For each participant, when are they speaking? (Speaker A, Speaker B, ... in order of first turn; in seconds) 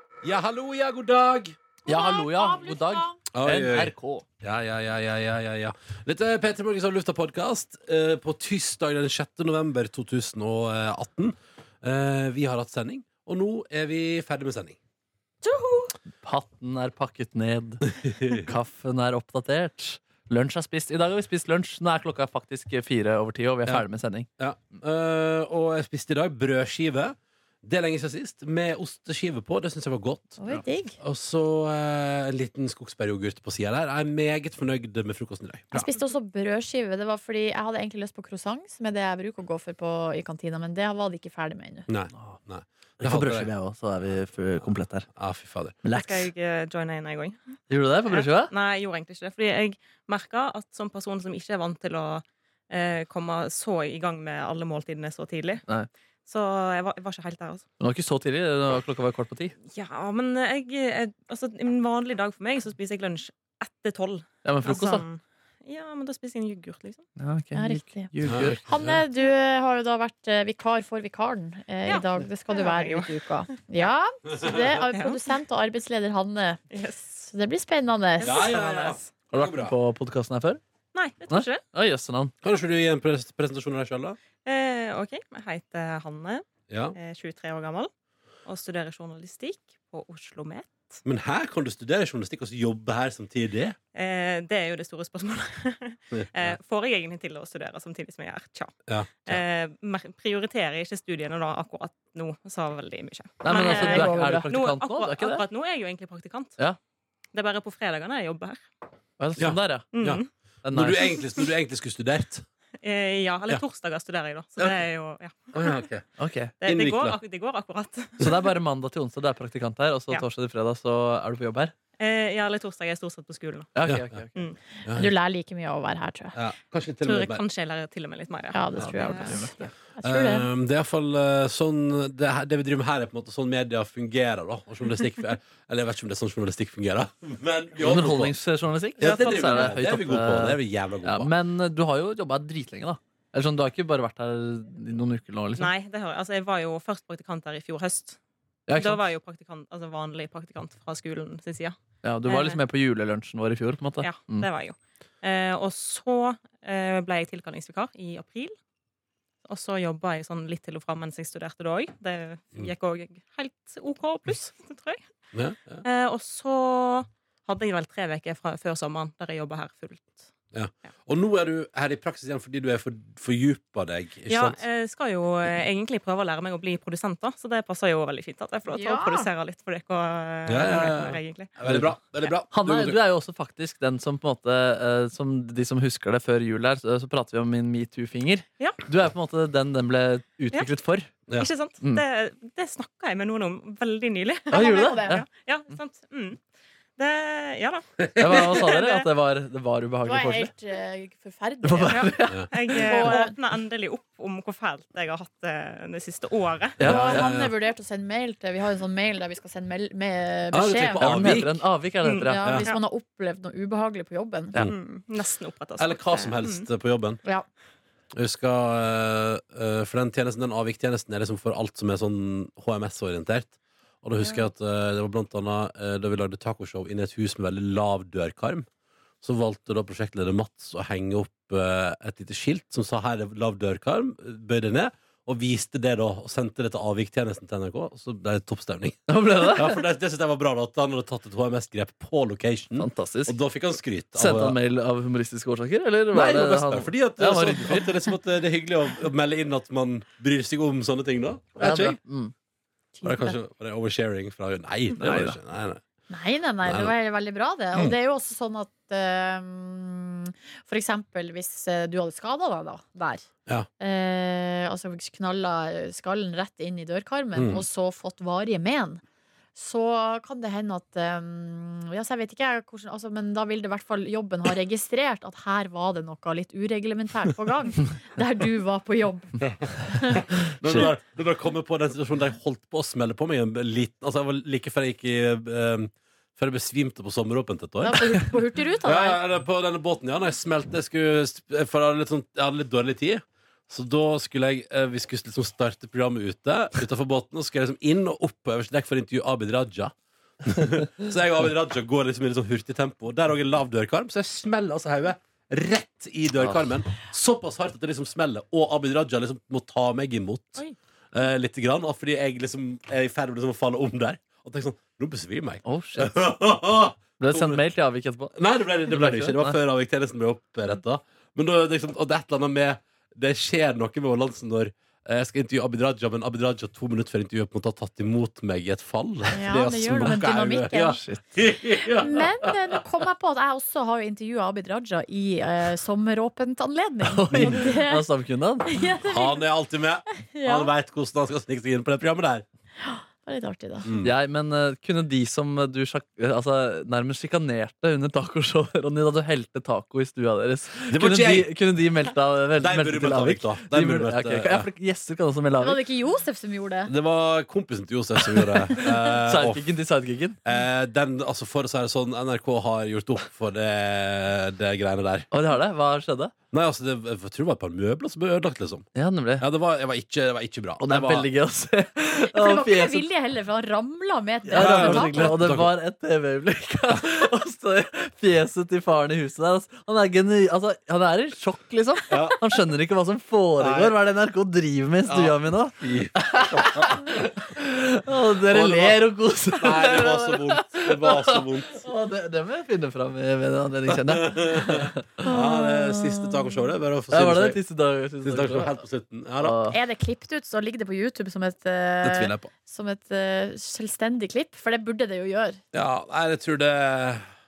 Speaker A: 0.2-1.6, 3.3-14.8, 24.4-30.4, 31.0-35.9, 41.9-43.5, 45.1-45.8, 68.2-69.0, 78.2-79.8, 82.4-84.2, 86.7-87.0, 91.0-93.8, 96.1-96.6, 98.9-99.4, 109.4-112.5, 115.5-116.1, 116.6-117.2, 124.8-125.1, 126.3-127.4, 130.0-138.3, 139.0-141.3, 165.3-165.8, 170.5-174.6, 180.5-183.0, 206.8-207.5, 210.5-211.6, 212.4-212.7, 215.8-217.2, 218.1-228.7, 229.2-244.6, 246.1-252.0, 253.0-255.8, 256.6-256.9, 267.4-267.6, 280.1-288.1, 288.8-299.9, 300.4-317.6, 318.3-332.5, 339.0-342.4, 343.8-344.1, 350.9-351.5, 352.6-354.7, 356.9-359.7, 360.4-365.3, 366.5-368.9, 369.4-371.3, 374.5-375.7, 382.1-382.4, 383.6-384.0, 385.1-387.0, 388.4-389.0, 389.5-391.8, 393.9-397.6, 398.2-399.6, 402.0-402.5, 405.7-407.2
Speaker B: 1.9-3.1, 15.4-15.9, 30.4-30.9, 35.7-41.9, 67.5-76.6, 77.2-78.4, 103.5-104.5, 124.9-126.3, 128.5-130.5, 178.7-179.3, 194.5-195.2, 200.0-202.2, 202.7-203.3, 206.8-211.1, 212.3-214.6, 252.9-253.3, 256.1-263.2, 263.8-269.0, 269.6-280.2, 287.8-289.2, 329.3-331.0, 331.9-338.1, 338.6-339.4, 340.3-340.7, 342.8-343.9, 355.6-356.9, 372.2-375.3, 395.2-396.5, 399.7-405.6
Speaker C: 1.9-4.2, 16.2-24.3, 43.0-45.1, 45.8-46.3, 47.7-48.5, 57.8-59.5, 64.4-65.0, 67.2-68.6, 79.3-80.6, 81.3-82.3, 103.4-105.4, 109.2-109.9, 110.6-111.0, 116.2-116.5, 118.2-121.7, 123.7-124.4, 128.8-129.6, 137.8-145.7, 148.7-149.0, 152.0-154.5, 181.7-181.9, 182.5-191.1, 194.5-195.2, 198.2-200.5, 201.6-202.7, 206.8-207.4, 211.0-212.4, 239.1-239.8, 242.8-243.3, 244.1-247.9, 251.6-252.3, 255.0-255.4, 315.6-316.1, 317.2-318.3, 318.9-319.6, 330.9-331.2, 337.0-338.7, 344.0-355.8, 358.3-360.4, 365.3-366.3, 368.9-369.4, 370.8-373.1, 374.4-395.2, 397.1-398.8, 399.4-399.8
Speaker D: 45.9-47.4, 48.1-55.6, 56.3-57.6, 59.7-67.0, 71.8-73.9, 76.7-77.2, 78.2-79.1, 80.9-81.6, 84.4-87.9, 88.5-91.0, 93.9-106.5, 107.3-108.6, 109.9-110.3, 111.2-111.4, 112.8-115.9, 116.6-118.3, 122.0-123.7, 127.0-129.7, 139.0-139.7, 145.6-148.2, 148.8-151.7, 152.2-152.6, 154.0-158.5, 159.4-165.0, 165.8-170.2, 174.3-181.5, 191.4-196.4, 197.0-199.1, 202.5-206.8, 212.0-212.8, 214.6-216.6